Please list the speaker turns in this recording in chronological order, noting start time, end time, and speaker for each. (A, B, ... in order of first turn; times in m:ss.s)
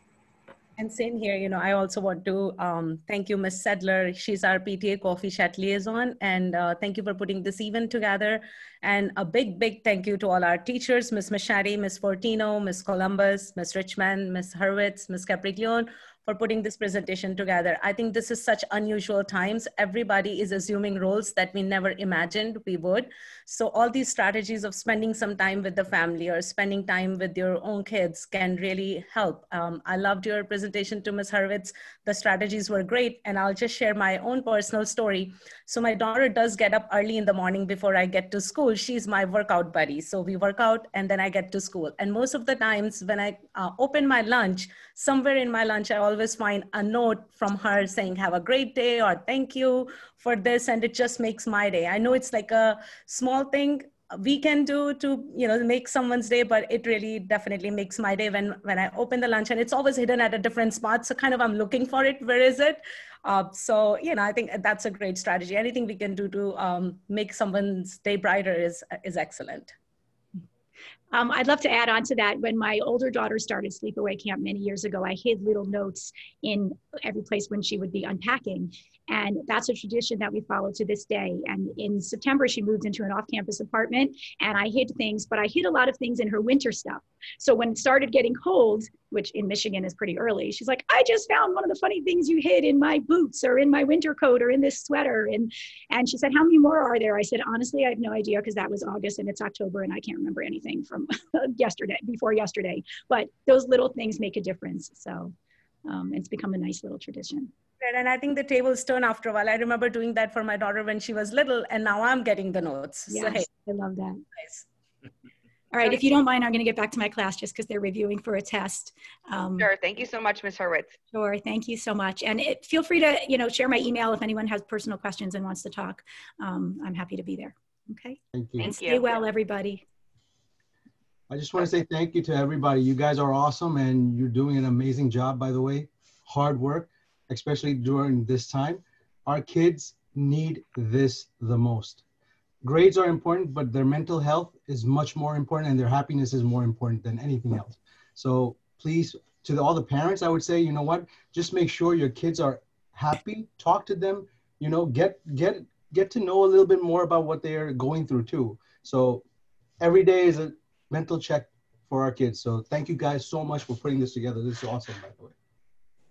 0:00.8-1:09.7 A
1:11.1-1:45.3 B
1:45.8-1:47.5 B
1:47.8-1:53.5 A
1:53.1-1:54.2 B
1:54.4-1:54.6 A
1:55.7-1:59.7 B
1:59.6-2:01.0 C
2:01.1-2:09.8 B
2:08.3-2:08.7 D
2:08.6-2:09.1 C
2:11.3-2:22.0 D
2:22.6-2:39.2 D
2:39.8-2:45.3 D